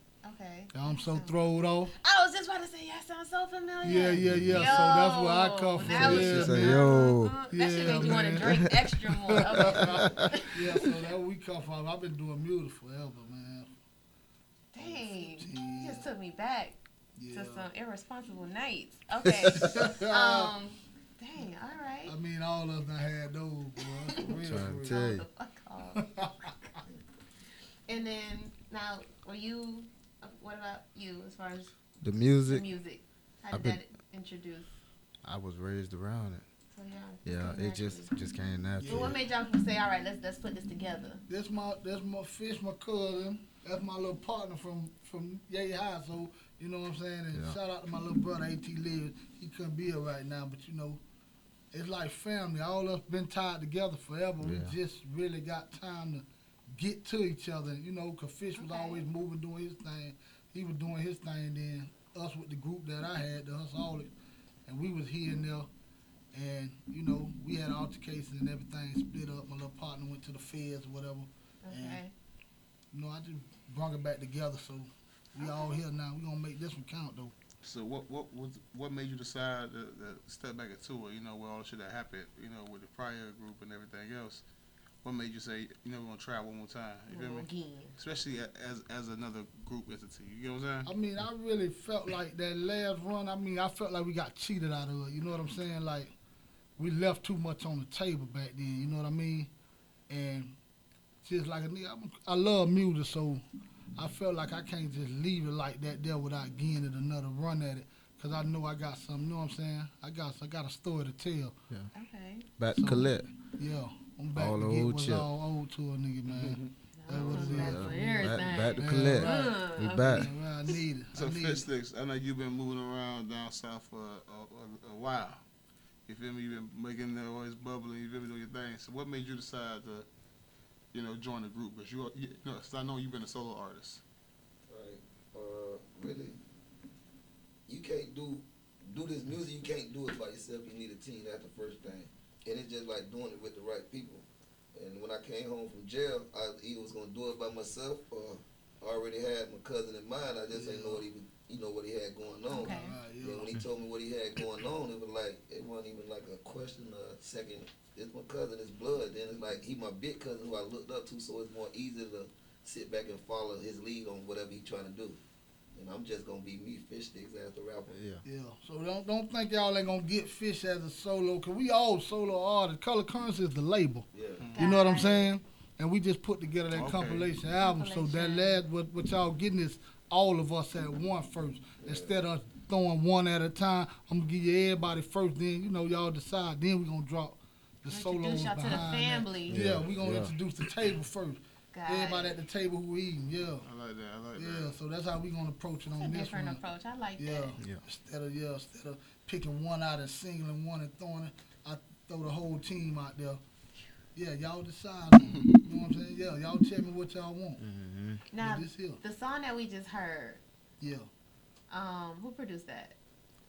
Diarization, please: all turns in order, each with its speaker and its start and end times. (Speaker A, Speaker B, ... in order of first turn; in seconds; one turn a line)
Speaker A: 0.2-10.9
Speaker B: 0.7-1.9
Speaker B: 3.8-6.9
Speaker C: 4.2-4.8
Speaker C: 5.8-8.9
Speaker B: 7.5-8.6
Speaker B: 9.2-13.7
Speaker C: 9.6-10.3
Speaker A: 14.7-16.8
Speaker B: 15.2-16.1
Speaker B: 17.2-17.7
Speaker A: 17.3-22.1
Speaker C: 19.4-19.8
Speaker B: 19.6-20.5
Speaker B: 22.1-24.9
Speaker A: 23.9-24.3
Speaker C: 24.4-25.2
Speaker A: 24.8-26.5
Speaker B: 25.9-26.5
Speaker A: 27.9-31.7
Speaker C: 32.0-32.6
Speaker A: 32.4-34.7
Speaker C: 33.5-33.8
Speaker C: 35.2-36.4
Speaker A: 36.7-38.1
Speaker C: 37.2-39.1
Speaker B: 38.8-39.2
Speaker A: 38.8-41.2
Speaker B: 41.3-51.0
Speaker B: 51.7-64.1
Speaker C: 54.4-54.7
Speaker A: 58.5-59.0
Speaker B: 64.7-65.7
Speaker B: 66.3-72.0
Speaker A: 71.6-72.1
Speaker B: 72.9-77.3
Speaker A: 75.4-75.8
Speaker D: 77.6-84.4
Speaker D: 85.0-90.9
Speaker A: 87.1-88.0
Speaker B: 90.8-96.1
Speaker B: 96.8-99.5
Speaker B: 100.1-100.5
Speaker B: 101.2-103.4
Speaker B: 104.0-111.6
Speaker A: 111.9-112.5
Speaker C: 112.6-113.3
Speaker B: 112.7-121.7
Speaker C: 114.3-115.3
Speaker D: 116.3-117.6
Speaker A: 117.0-120.3
Speaker C: 117.5-120.3
Speaker D: 121.1-125.4
Speaker D: 126.1-130.1
Speaker D: 130.9-134.0
Speaker E: 134.7-136.4
Speaker E: 137.7-165.2
Speaker B: 150.5-151.0
Speaker A: 152.5-152.9
Speaker B: 152.6-153.5
Speaker E: 165.7-168.0
Speaker C: 167.9-168.2
Speaker B: 168.2-193.7
Speaker E: 174.1-174.6
Speaker A: 174.6-175.3
Speaker D: 176.7-177.3
Speaker A: 177.6-178.6
Speaker E: 181.8-182.2
Speaker A: 187.9-189.6
Speaker C: 189.5-190.3
Speaker A: 191.7-192.3
Speaker D: 193.6-194.8
Speaker B: 194.3-196.6
Speaker A: 195.9-197.6
Speaker B: 197.2-203.4
Speaker B: 204.1-207.6
Speaker D: 205.2-205.6
Speaker C: 207.6-208.2
Speaker A: 208.3-210.4
Speaker B: 208.3-209.0
Speaker B: 210.8-211.1
Speaker A: 211.7-212.9